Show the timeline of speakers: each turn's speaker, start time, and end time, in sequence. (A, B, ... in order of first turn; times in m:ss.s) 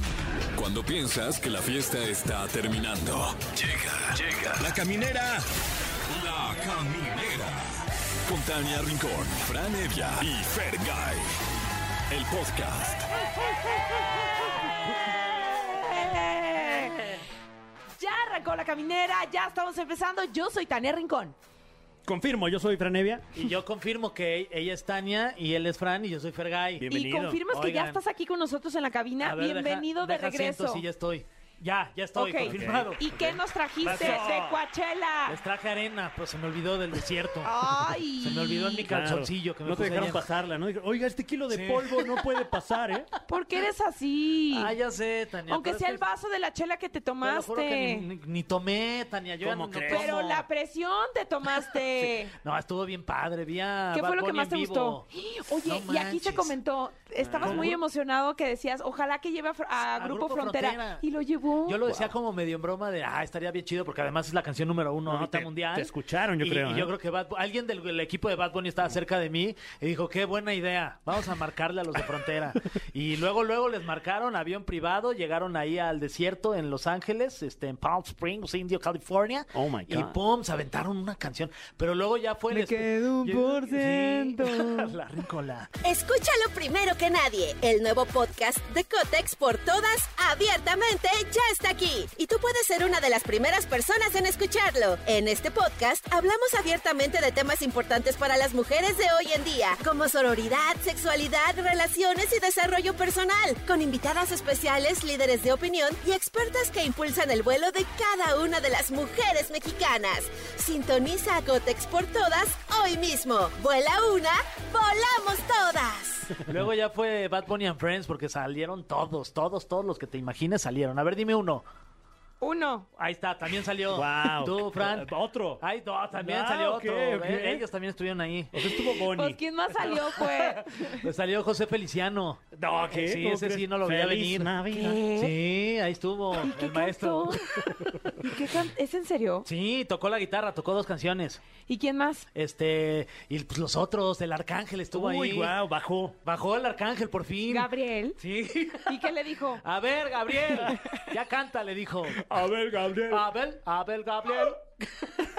0:00.6-0:05.5 A
0:06.1-0:11.3 A
0:12.1-0:13.1 A
0:15.4-0:17.0 B
0:18.0-0:21.4 B
0:22.0-0:23.5 C
0:23.4-0:26.9 D
0:26.8-0:27.5 C
0:26.9-0:30.8 B
0:27.5-0:28.0 D
0:29.2-0:33.1 D
0:32.2-0:35.4 B
0:32.4-0:34.6 C
0:33.8-0:34.4 D
0:35.3-0:40.3 D
0:37.4-0:38.9 B
0:38.9-0:43.1 C
0:41.5-0:42.4 D
0:43.3-0:44.7 B
0:44.5-0:46.0 D
0:45.5-0:48.1 B
0:47.2-0:50.4 D
0:49.4-0:50.1 C
0:49.9-0:52.3 B
0:52.0-0:56.6 D
0:53.9-1:01.8 B
0:57.2-0:57.8 C
0:57.4-0:57.8 D
0:59.9-1:01.0 D
1:01.7-1:25.7 D
1:05.1-1:06.9 C
1:19.5-1:20.2 C
1:22.5-1:24.9 B
1:25.8-1:56.3 E
1:56.5-2:01.7 D
2:02.4-2:02.9 B
2:03.0-2:08.5 D
2:03.9-2:05.6 C
2:06.2-2:07.6 C
2:08.5-2:10.2 C
2:09.0-2:11.0 B
2:10.9-2:14.5 D
2:12.5-2:15.0 C
2:14.7-2:15.4 B
2:15.1-2:17.4 D
2:16.4-2:19.5 B
2:19.4-2:21.4 D
2:21.7-2:22.3 B
2:22.4-2:25.6 D
2:24.9-2:26.2 C
2:26.2-2:32.2 D
2:27.5-2:28.2 B
2:28.9-2:29.6 B
2:32.2-2:33.2 C
2:33.1-2:35.1 D